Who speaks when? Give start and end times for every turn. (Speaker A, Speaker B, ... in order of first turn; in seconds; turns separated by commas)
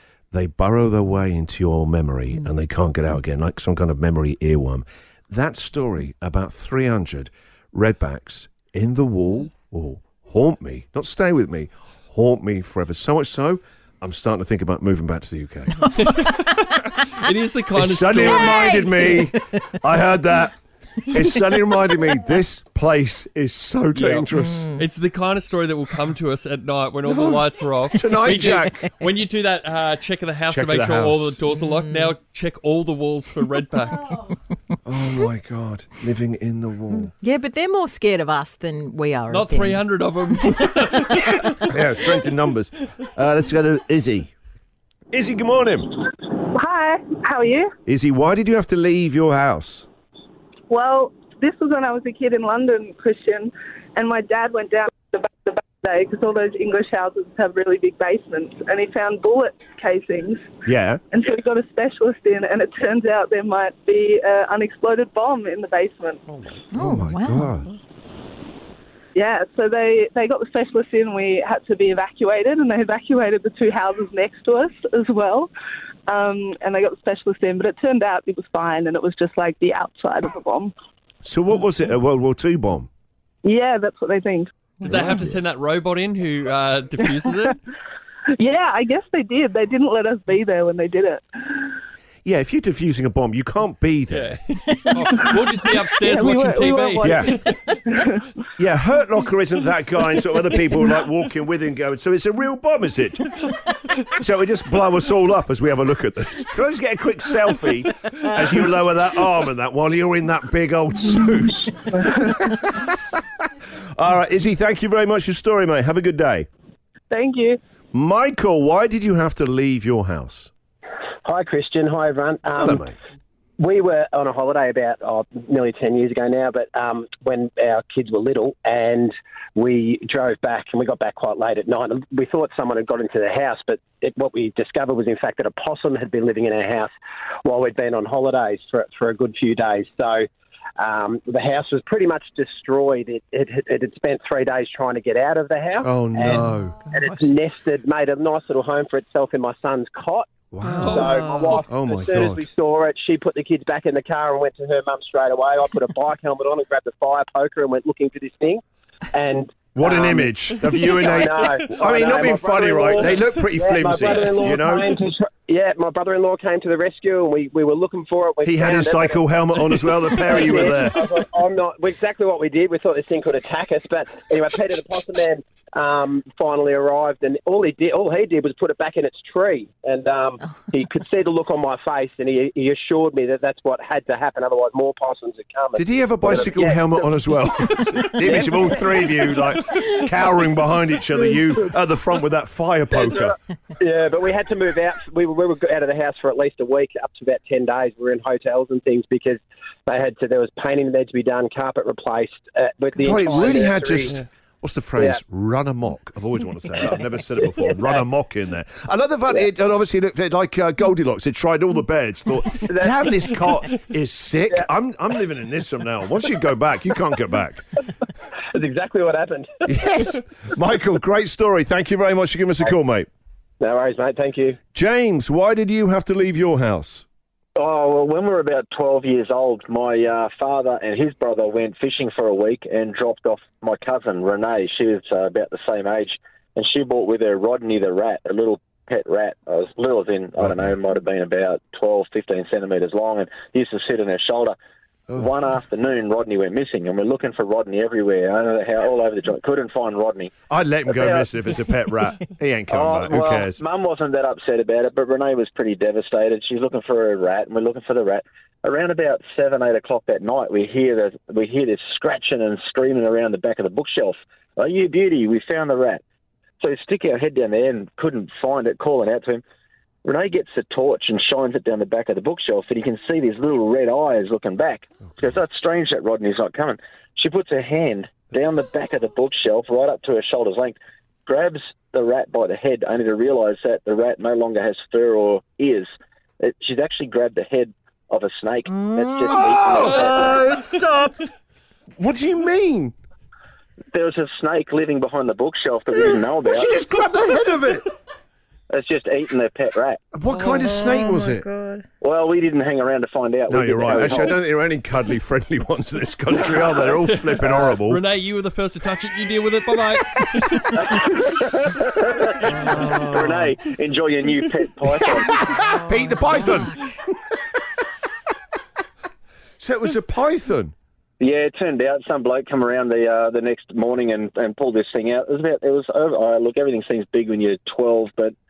Speaker A: 0.3-15.8, Speaker B: 16.0-18.8, Speaker A: 17.8-20.5, Speaker C: 18.4-19.2, Speaker A: 21.1-24.7, Speaker B: 23.9-34.3, Speaker A: 27.0-28.9, Speaker A: 30.5-31.4, Speaker C: 31.6-32.1, Speaker A: 34.9-37.1, Speaker C: 37.2-39.9, Speaker B: 39.3-41.8, Speaker A: 41.7-44.3, Speaker A: 45.1-46.0, Speaker D: 46.5-47.7, Speaker A: 47.9-49.9, Speaker D: 50.7-60.4, Speaker A: 60.7-61.0, Speaker D: 61.1-66.2, Speaker A: 66.3-67.8, Speaker C: 66.7-67.5, Speaker D: 69.1-75.5, Speaker D: 76.1-80.7, Speaker A: 81.2-82.9, Speaker D: 83.4-84.5, Speaker B: 84.8-87.5, Speaker A: 84.8-85.4, Speaker D: 88.3-91.8, Speaker A: 92.2-94.4, Speaker B: 94.1-97.8, Speaker D: 94.8-98.2, Speaker A: 97.0-97.4, Speaker A: 98.6-103.4, Speaker A: 104.1-112.8, Speaker A: 114.0-116.5, Speaker D: 117.1-117.6, Speaker A: 117.9-120.5, Speaker E: 121.2-122.9, Speaker A: 122.6-122.9, Speaker E: 123.6-136.9, Speaker E: 137.4-140.2, Speaker E: 140.8-150.3, Speaker A: 145.8-146.8, Speaker C: 146.8-147.2, Speaker A: 150.5-151.1, Speaker C: 150.6-151.2, Speaker B: 150.7-151.1, Speaker E: 150.9-187.2, Speaker A: 151.6-152.5, Speaker A: 159.7-164.9, Speaker B: 160.9-161.7, Speaker A: 168.4-171.1, Speaker A: 185.7-193.3, Speaker E: 188.0-188.9, Speaker E: 192.9-204.2, Speaker A: 203.0-217.6, Speaker E: 205.0-205.2, Speaker E: 207.0-208.0, Speaker E: 212.7-213.0, Speaker E: 218.5-219.7, Speaker A: 219.7-223.1, Speaker E: 223.6-224.6, Speaker A: 224.7-227.0, Speaker F: 227.6-244.6, Speaker A: 240.4-240.7, Speaker F: 245.2-250.3, Speaker A: 250.5-253.6, Speaker F: 250.9-251.3, Speaker F: 252.7-266.0, Speaker F: 266.6-269.4, Speaker F: 270.0-285.9, Speaker F: 286.4-290.4, Speaker C: 288.7-289.4, Speaker A: 289.4-290.1, Speaker B: 289.8-291.1, Speaker C: 290.0-291.1, Speaker A: 292.0-292.9, Speaker F: 293.9-296.7, Speaker A: 295.9-297.9, Speaker F: 298.7-300.0, Speaker A: 300.1-301.5, Speaker B: 300.3-300.7, Speaker C: 300.8-301.8, Speaker F: 302.0-304.4, Speaker A: 303.5-308.0, Speaker B: 306.8-310.8, Speaker F: 310.8-315.5, Speaker C: 312.8-313.1, Speaker A: 315.5-316.8, Speaker C: 315.6-316.7, Speaker A: 319.6-320.7, Speaker F: 321.2-328.3